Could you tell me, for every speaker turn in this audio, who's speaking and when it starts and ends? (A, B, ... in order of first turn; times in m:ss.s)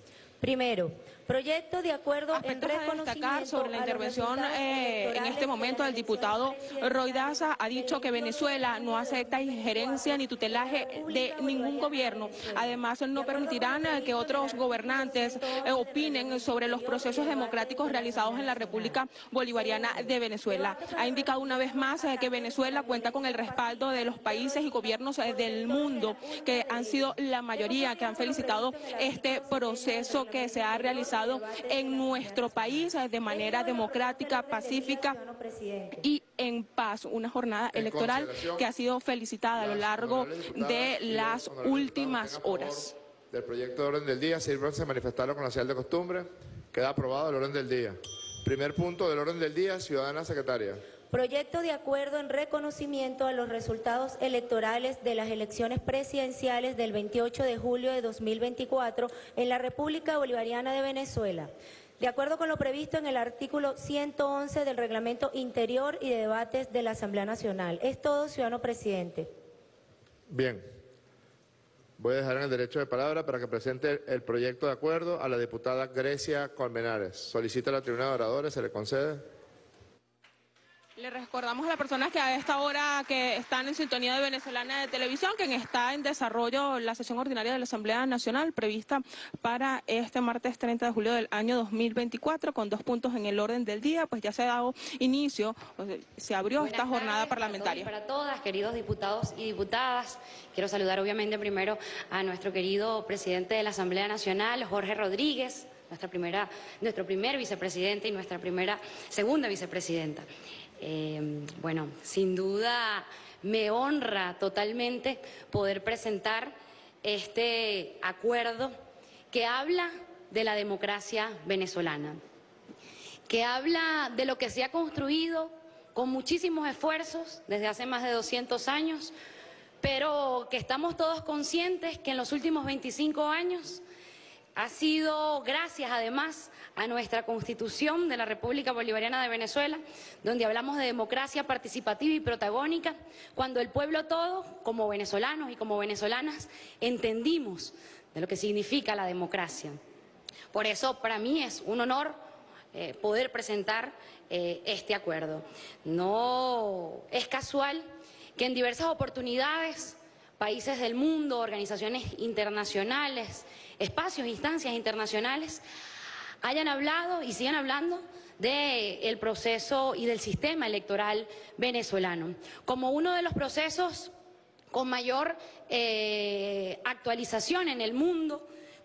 0:00.4-0:36.0 A
0:02.3-0:35.2 B
0:36.0-0:42.9 B
0:37.7-0:38.6 C
0:39.6-0:50.8 C
0:51.1-1:09.3 A
1:10.3-1:10.6 C
1:12.0-1:19.2 C
1:21.0-1:37.9 B
1:36.6-1:50.3 D
1:50.8-1:58.8 D
1:59.3-2:02.2 D
2:03.3-2:09.1 D
2:09.8-2:13.8 D
2:14.6-2:29.8 D
2:30.5-2:32.2 D
2:32.7-2:45.6 D
2:46.4-2:54.1 D
2:54.7-2:58.5 D